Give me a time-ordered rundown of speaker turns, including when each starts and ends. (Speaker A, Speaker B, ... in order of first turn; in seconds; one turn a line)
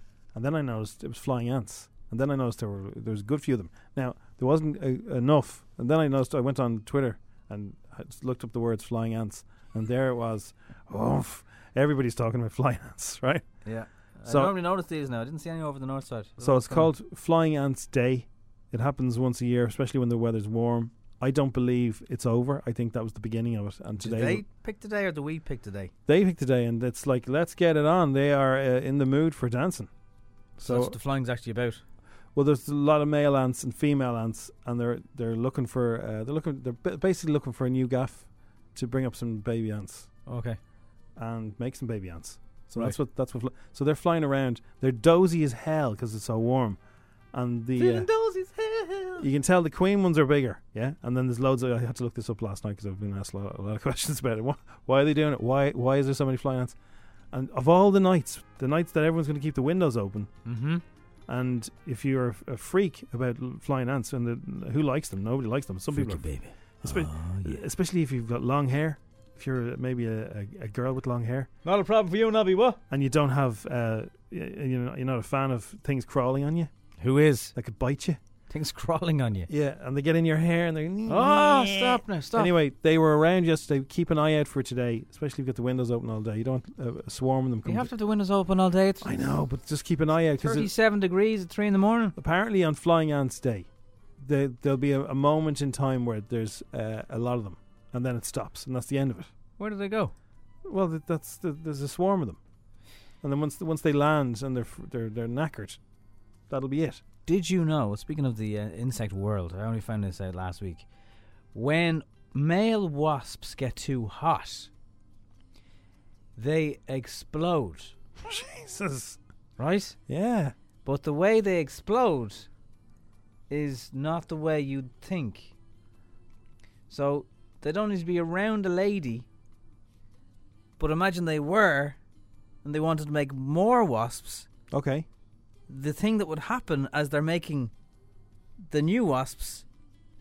Speaker A: 0.3-13.4
Speaker B: 13.6-16.9
Speaker A: 14.3-14.5
Speaker A: 16.4-24.4
Speaker B: 24.0-25.9
Speaker A: 26.1-29.9
Speaker A: 30.6-30.9
Speaker B: 30.6-31.8
Speaker A: 32.3-40.1
Speaker B: 40.3-40.6
Speaker A: 41.2-46.8
Speaker A: 47.3-48.1
Speaker B: 47.8-49.3
Speaker A: 49.2-56.7
Speaker A: 57.3-60.3
Speaker B: 60.5-60.8
Speaker A: 61.3-71.5
Speaker B: 65.9-67.6
Speaker B: 71.6-72.8
Speaker A: 72.9-76.7
Speaker B: 77.0-77.5
Speaker A: 77.5-78.2
Speaker B: 78.5-79.5
Speaker A: 79.5-87.9
Speaker B: 81.1-82.5
Speaker B: 87.6-89.3
Speaker A: 89.0-90.7
Speaker B: 90.4-92.1
Speaker A: 92.2-93.7
Speaker A: 94.2-99.3
Speaker B: 99.6-100.1
Speaker A: 100.7-102.4
Speaker A: 103.2-105.8
Speaker A: 106.5-107.0
Speaker B: 107.2-110.8
Speaker B: 111.5-114.7
Speaker B: 116.3-117.9
Speaker A: 118.2-119.2
Speaker B: 119.6-120.0
Speaker A: 120.1-120.5
Speaker B: 120.8-122.5
Speaker B: 123.5-125.5
Speaker B: 126.9-129.2
Speaker B: 130.8-132.0
Speaker B: 132.6-134.5
Speaker A: 134.7-135.1
Speaker B: 135.7-137.7
Speaker B: 138.7-139.7